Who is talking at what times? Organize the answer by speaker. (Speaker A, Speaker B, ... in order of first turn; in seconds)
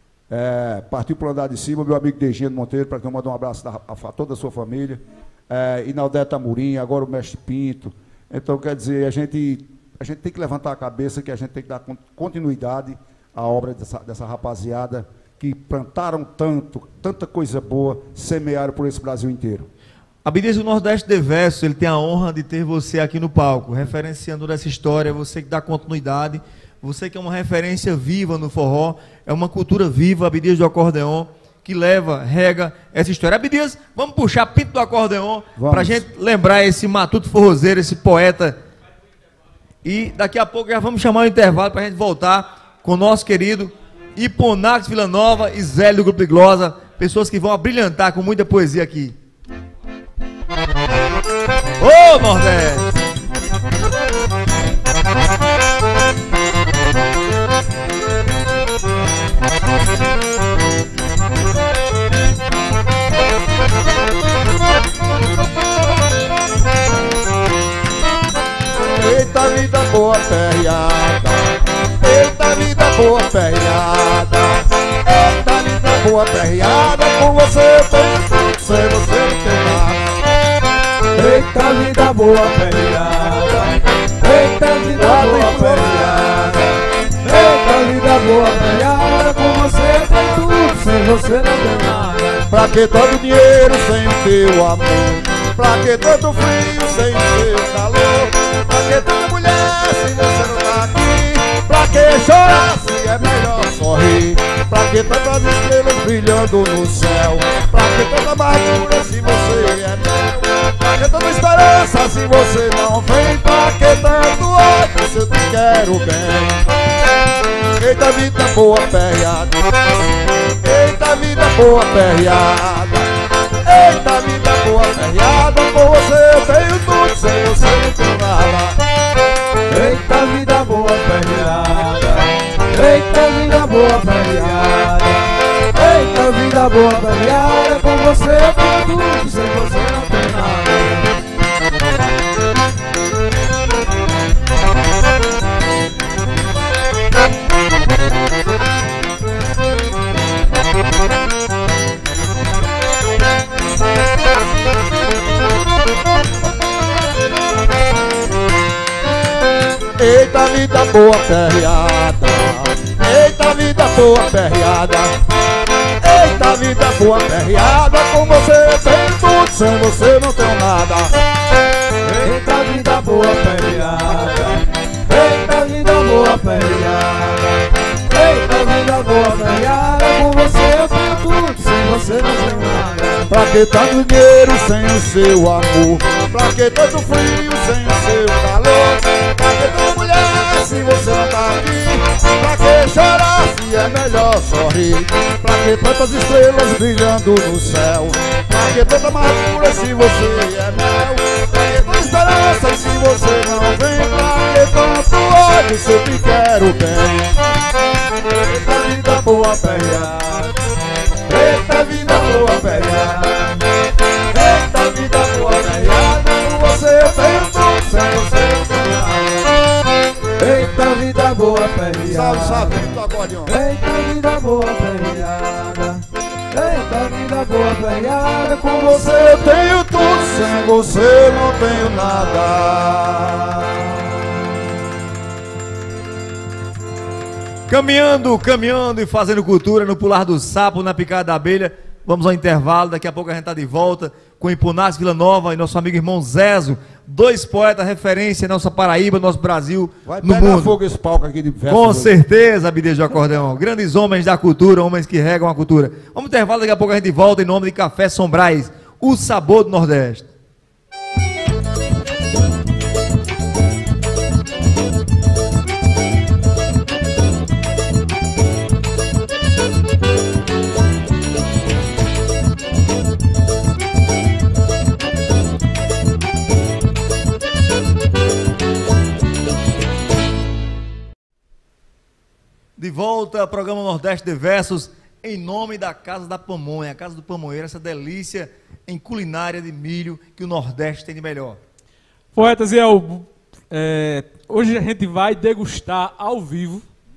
Speaker A: 0.3-19.7, 35.6-36.0, 68.8-80.2, 84.9-86.5, 92.5-116.6, 117.8-119.6, 120.6-123.1, 123.6-128.8, 160.0-165.2, 166.0-171.2, 183.3-207.4, 208.3-210.1, 214.3-214.9, 216.2-219.3, 222.1-223.6, 228.8-234.2, 250.0-252.2
Speaker B: 20.2-38.6, 39.8-49.1, 51.8-52.9, 237.7-250.7, 251.7-260.3, 282.8-291.6
Speaker C: 81.1-92.4, 129.7-141.1, 172.1-183.3, 211.3-213.6, 214.6-219.1, 220.4-222.9, 223.4-229.3
Speaker D: 292.3-296.8